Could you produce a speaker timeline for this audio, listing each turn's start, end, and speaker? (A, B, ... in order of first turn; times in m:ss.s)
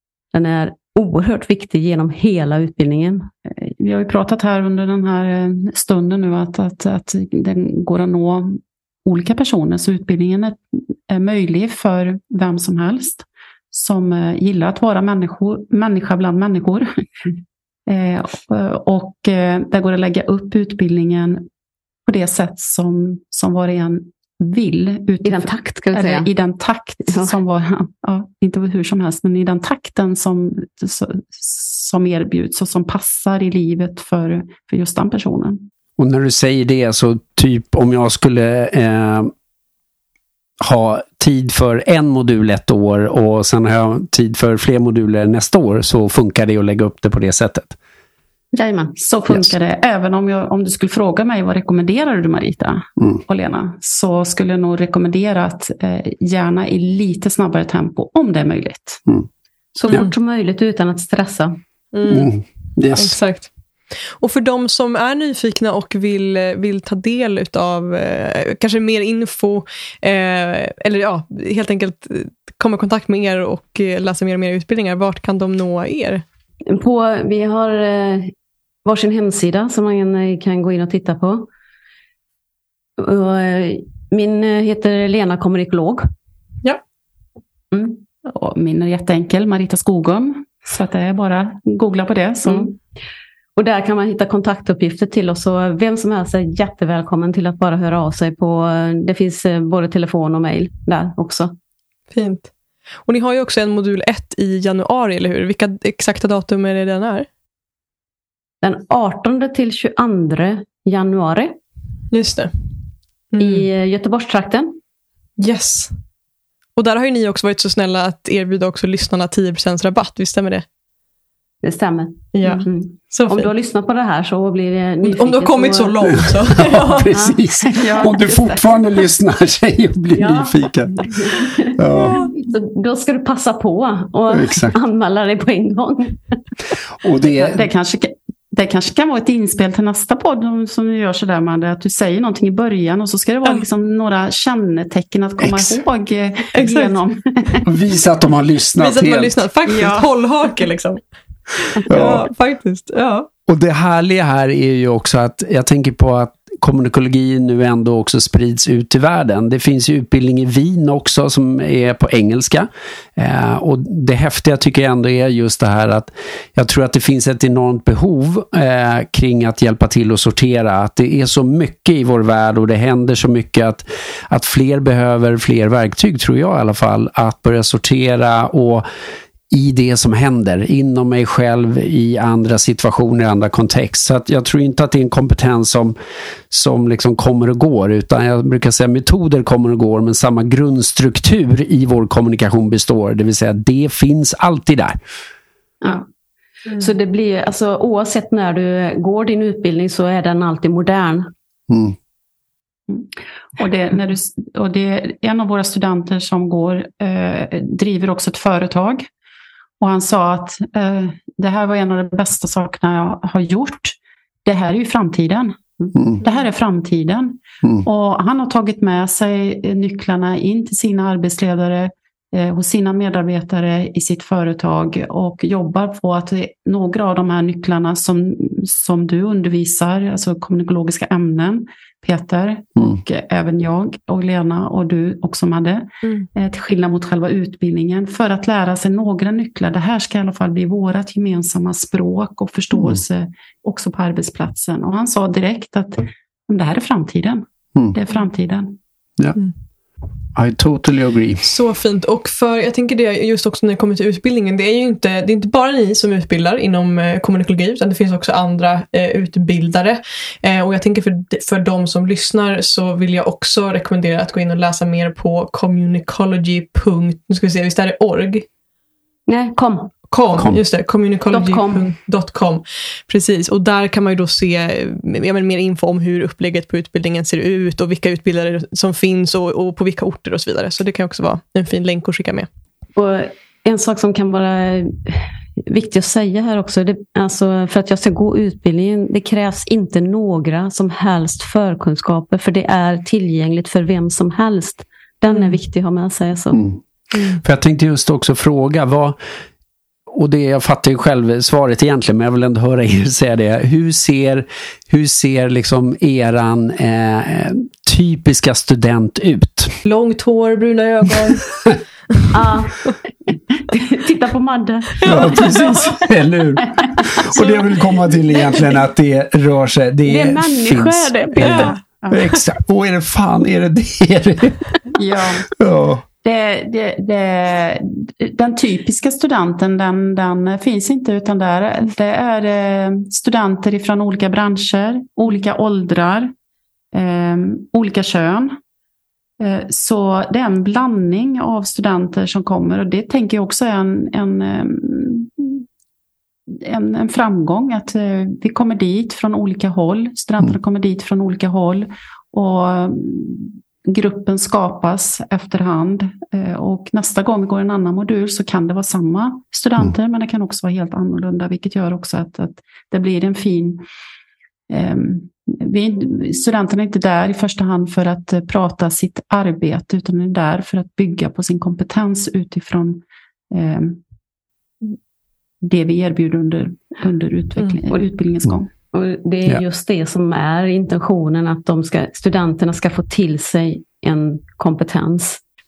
0:00.3-0:03.3 A
0:03.6-0:17.3 B
0:17.9-0:21.5 B
0:22.1-0:35.7 B
0:25.2-0:26.3 A
0:36.0-0:39.3 C
0:40.6-0:47.8 C
0:48.5-0:49.0 A
0:49.0-0:59.0 B
0:59.8-1:01.6 A
0:59.9-1:00.1 D
1:01.9-1:02.3 D
1:02.1-1:03.2 C
1:03.0-1:03.5 D
1:04.2-1:16.2 D
1:16.7-1:18.3 A
1:18.8-1:21.5 A
1:23.0-1:26.1 A
1:28.2-1:32.8 B
1:33.6-1:41.5 A
1:42.1-1:42.5 D
1:43.1-1:47.3 D
1:48.6-1:51.6 A
1:52.1-1:52.5 D
1:53.3-1:53.7 D
1:53.4-1:54.8 A
1:55.4-1:56.0 D
1:56.8-2:00.6 D
2:01.6-2:06.3 A
2:02.3-2:03.5 D
2:05.0-2:07.1 D
2:06.6-2:12.2 C
2:07.1-2:08.5 A
2:07.6-2:08.7 B
2:10.1-2:16.4 A
2:14.3-2:14.8 C
2:17.0-2:17.7 C
2:17.4-2:27.6 B
2:25.4-2:25.8 C
2:26.6-2:27.0 D
2:27.6-2:29.4 C
2:28.8-2:33.3 D
2:29.7-2:30.0 B
2:31.9-2:32.3 C
2:33.5-2:58.9 C
2:59.5-3:05.9 C
3:06.5-3:15.0 C
3:16.7-3:21.3 A
3:21.7-3:22.0 C
3:22.9-3:29.1 B
3:29.8-3:35.6 B
3:36.2-4:08.8 B
4:10.4-4:11.5 C
4:11.4-4:28.5 D
4:29.3-4:30.0 A
4:30.1-4:42.5 D
4:31.3-4:31.9 A
4:43.0-4:56.7 A
4:55.3-4:55.6 D
4:56.5-4:56.8 C
4:57.1-4:57.4 D
4:57.4-4:59.2 C
5:00.1-5:09.8 C
5:09.8-5:11.5 D
5:12.3-5:12.9 A
5:13.6-5:15.6 A
5:15.0-5:15.8 D
5:15.0-5:24.6 C
5:20.1-5:21.8 A
5:21.4-5:21.8 D
5:25.0-5:25.5 B
5:25.6-5:26.0 C
5:26.2-5:36.3 B
5:36.9-5:38.6 B
5:39.4-5:45.7 B
5:46.5-6:03.8 B
6:04.7-6:14.0 B
6:15.6-6:18.7 B
6:18.9-6:25.4 A